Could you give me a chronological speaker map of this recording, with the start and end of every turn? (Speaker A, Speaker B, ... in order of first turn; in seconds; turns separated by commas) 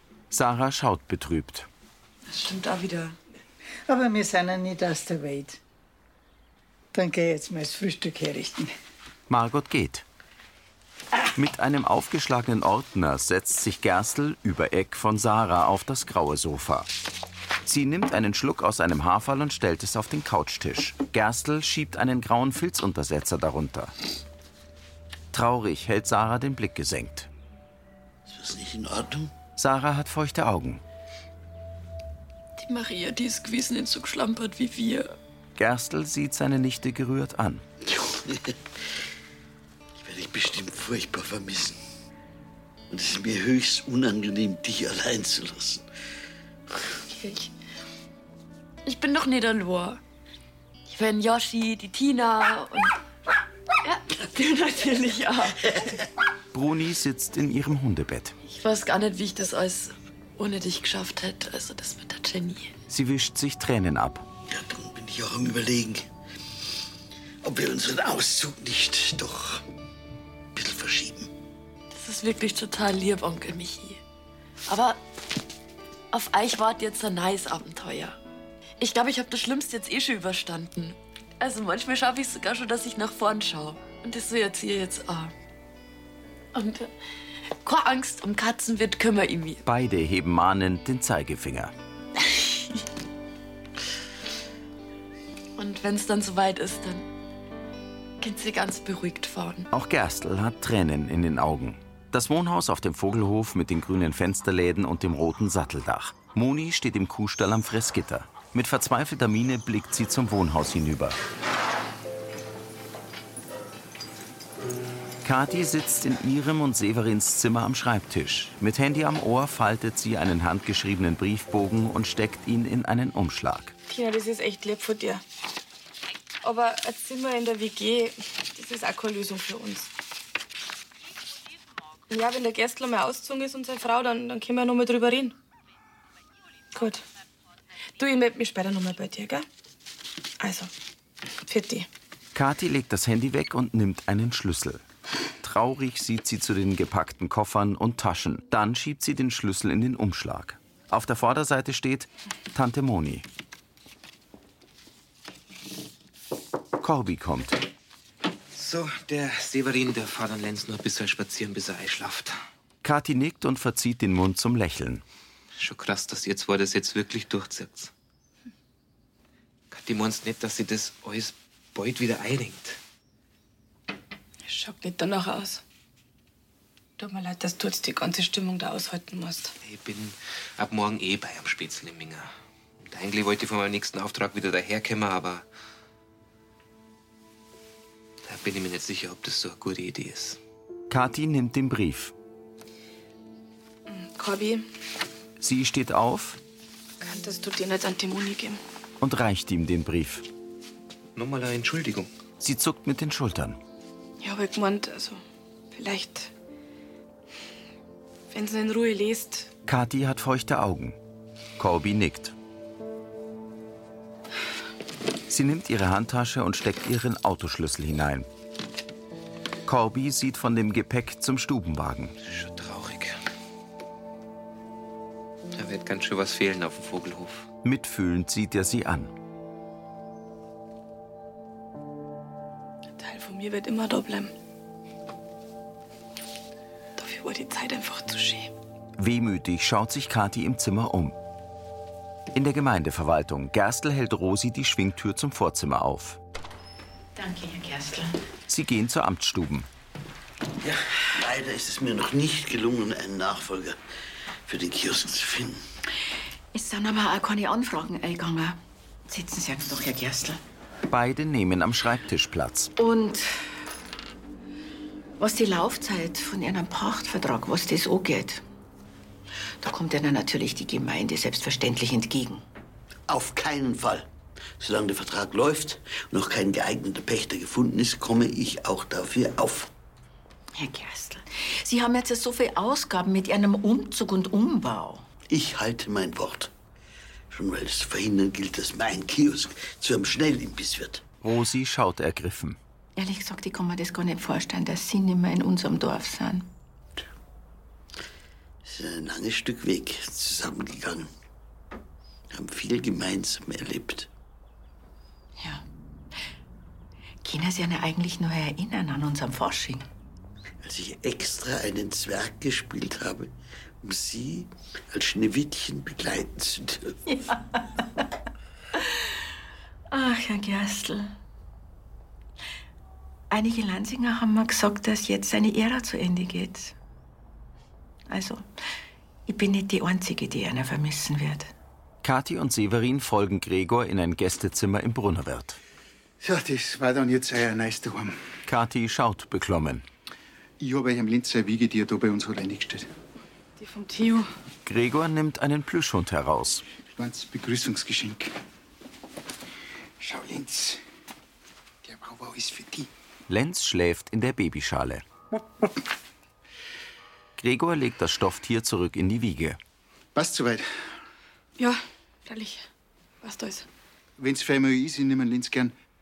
Speaker A: 0.3-1.7, Speaker B: 2.3-3.1, Speaker C: 3.9-5.6, Speaker C: 6.9-8.7, Speaker A: 9.3-10.0, Speaker A: 11.3-16.9, Speaker A: 17.6-23.9, Speaker A: 25.3-27.3, Speaker D: 28.2-29.3, Speaker A: 29.6-30.8, Speaker B: 32.6-35.1, Speaker A: 35.5-37.6, Speaker D: 37.8-38.5, Speaker D: 40.0-41.8, Speaker D: 42.9-45.8, Speaker B: 47.1-47.5, Speaker B: 48.8-50.0, Speaker B: 50.9-53.0, Speaker B: 53.8-55.9, Speaker A: 56.5-58.3, Speaker B: 58.4-62.7, Speaker A: 62.9-64.2, Speaker D: 64.5-66.1, Speaker D: 67.4-69.6, Speaker D: 70.5-71.3, Speaker B: 71.9-74.0, Speaker B: 74.7-75.0, Speaker B: 76.1-78.2, Speaker B: 78.8-85.3, Speaker B: 86.5-86.9, Speaker B: 87.6-89.6, Speaker A: 89.6-91.7, Speaker B: 95.5-97.1, Speaker B: 98.2-99.7, Speaker A: 99.7-111.2, Speaker A: 115.2-123.7, Speaker E: 123.9-125.2, Speaker E: 126.4-129.9, Speaker E: 132.1-135.4, Speaker E: 136.7-137.0, Speaker E: 137.9-139.4, Speaker E: 140.4-140.7, Speaker E: 141.4-141.9, Speaker A: 142.3-144.8, Speaker A: 145.4-153.3, Speaker A: 156.8-157.6, Speaker F: 158.5-162.4, Speaker A: 162.8-165.0, Speaker F: 165.6-167.9, Speaker F: 169.7-172.8, Speaker E: 174.4-175.6, Speaker E: 177.0-179.5, Speaker F: 179.6-182.3, Speaker F: 182.8-185.4, Speaker F: 188.2-190.4, Speaker A: 190.9-192.1, Speaker E: 193.9-194.7, Speaker A: 195.4-196.4, Speaker E: 197.0-198.6, Speaker A: 199.0-200.2, Speaker F: 201.2-202.1, Speaker A: 202.4-203.6, Speaker E: 204.2-205.2, Speaker E: 205.7-206.3, Speaker E: 208.3-209.5, Speaker A: 209.7-211.0, Speaker A: 211.6-212.3, Speaker A: 215.3-218.3, Speaker A: 219.7-222.2, Speaker F: 222.2-223.2, Speaker F: 225.5-227.5, Speaker A: 227.6-229.1, Speaker E: 233.0-234.3, Speaker E: 237.0-238.5, Speaker A: 239.0-241.2, Speaker A: 242.3-246.2, Speaker G: 247.2-248.2, Speaker A: 248.5-249.7, Speaker D: 250.6-253.8, Speaker D: 254.4-255.6, Speaker G: 256.5-260.4, Speaker A: 260.9-262.7, Speaker G: 262.8-263.2, Speaker G: 265.2-268.4, Speaker G: 269.6-272.4, Speaker D: 273.1-279.7, Speaker G: 280.6-285.1, Speaker D: 285.3-286.5, Speaker D: 287.3-291.0, Speaker A: 291.2-292.6, Speaker G: 292.9-296.5, Speaker D: 298.6-301.1, Speaker D: 302.3-304.1, Speaker G: 305.4-305.6, Speaker G: 307.2-309.9, Speaker D: 310.6-317.0, Speaker G: 317.1-317.8, Speaker G: 319.9-321.1, Speaker G: 323.3-326.7, Speaker G: 328.1-328.4, Speaker G: 329.3-331.5, Speaker A: 332.0-335.6, Speaker H: 336.2-338.2, Speaker A: 338.4-339.8, Speaker H: 340.6-342.9, Speaker E: 343.6-344.3, Speaker A: 344.6-346.6, Speaker H: 346.9-348.3, Speaker H: 350.0-350.8, Speaker H: 351.8-352.9, Speaker A: 353.3-355.0, Speaker A: 357.4-359.6, Speaker H: 360.1-360.7, Speaker E: 361.6-362.6, Speaker E: 363.2-363.6, Speaker H: 364.2-365.7